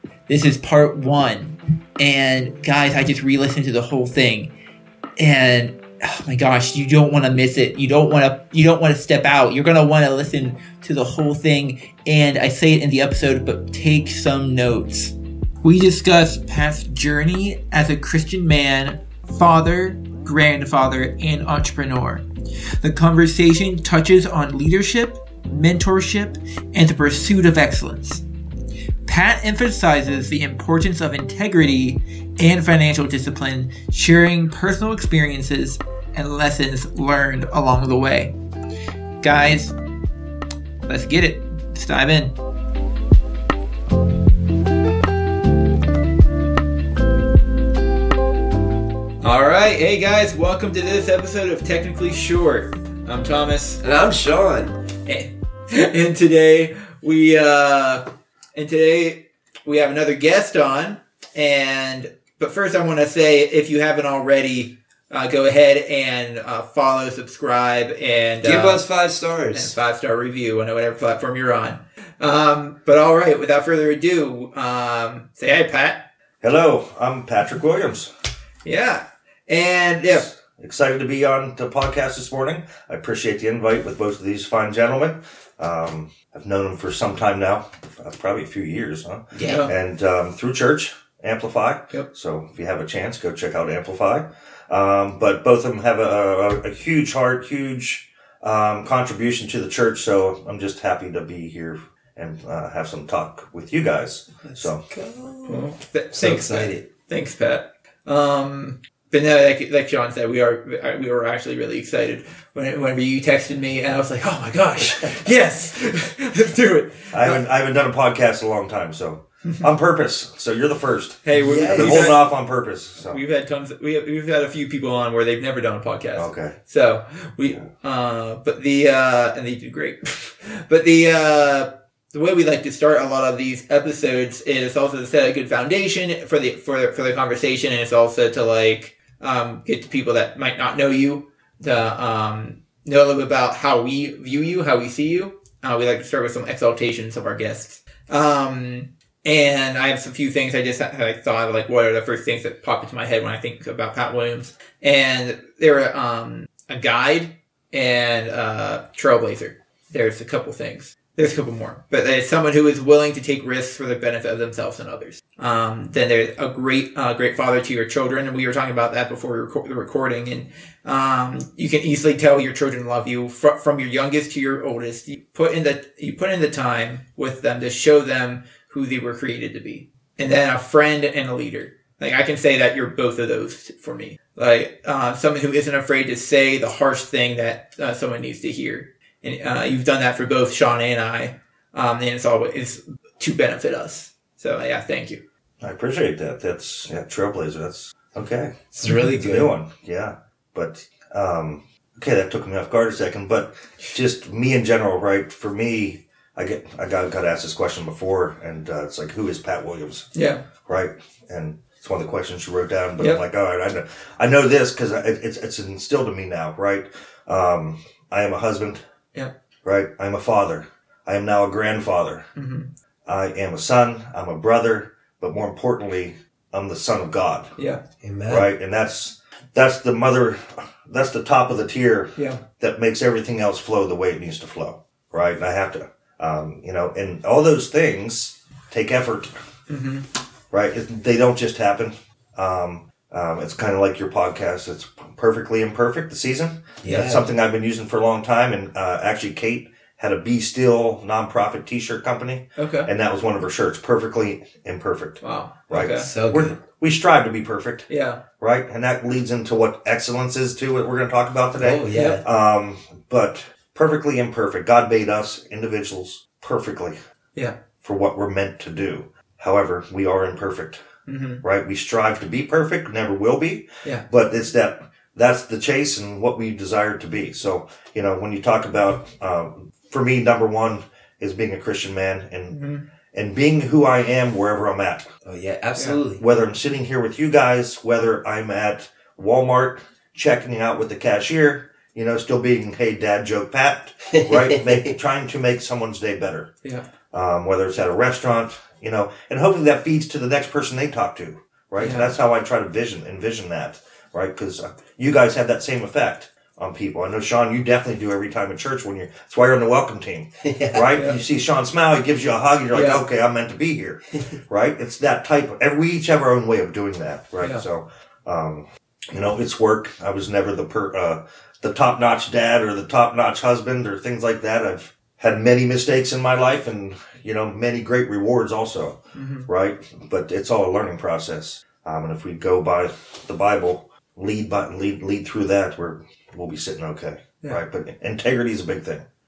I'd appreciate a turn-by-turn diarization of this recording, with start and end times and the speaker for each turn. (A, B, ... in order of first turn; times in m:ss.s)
0:00.3-0:04.5 A
0:05.2-0:22.2 A
0:22.8-0:28.2 A
0:29.1-0:38.3 A
0:39.2-0:39.8 A
0:40.9-0:42.4 A
0:49.2-0:53.8 A
0:53.8-0:54.8 B
0:55.1-0:58.0 A
0:58.6-1:08.8 A
1:08.4-1:09.8 B
1:09.5-1:16.0 A
1:16.4-1:18.1 C
1:18.6-1:20.3 A
1:20.1-1:44.8 C
1:29.3-1:29.7 B
1:29.4-1:29.7 A
1:44.4-1:46.8 B
1:45.5-1:57.4 A
1:57.1-2:03.2 C
2:01.2-2:02.2 A
2:01.4-2:02.2 B
2:03.1-3:15.2 A
2:06.2-2:06.6 C
3:15.6-3:18.5 C
3:18.7-3:19.5 B
3:18.9-3:19.2 A
3:19.1-3:30.1 C
3:30.2-3:30.4 A
3:30.6-3:38.8 C
3:39.6-3:42.3 C
3:42.4-3:42.7 A
3:43.1-3:47.5 C
3:48.0-3:48.5 B
3:48.3-3:59.3 C
3:52.2-3:52.4 A
3:59.7-4:00.0 A
4:00.5-4:17.9 C
4:06.8-4:07.3 B
4:12.6-4:12.9 A
4:15.2-4:16.1 A
4:15.8-4:16.6 B
4:17.9-4:18.2 A
4:18.4-4:27.0 C
4:21.6-4:22.2 B
4:21.9-4:22.2 A
4:27.8-4:30.8 C
4:31.1-4:31.4 A
4:31.4-4:42.6 C
4:42.5-4:42.8 A
4:43.1-4:45.1 C
4:45.2-4:46.2 B
4:46.2-4:56.5 C
4:54.1-4:54.4 B
4:57.1-5:39.1 C
5:01.8-5:02.1 A
5:10.4-5:10.9 B
5:10.9-5:11.2 A
5:12.7-5:13.0 A
5:29.2-5:29.5 A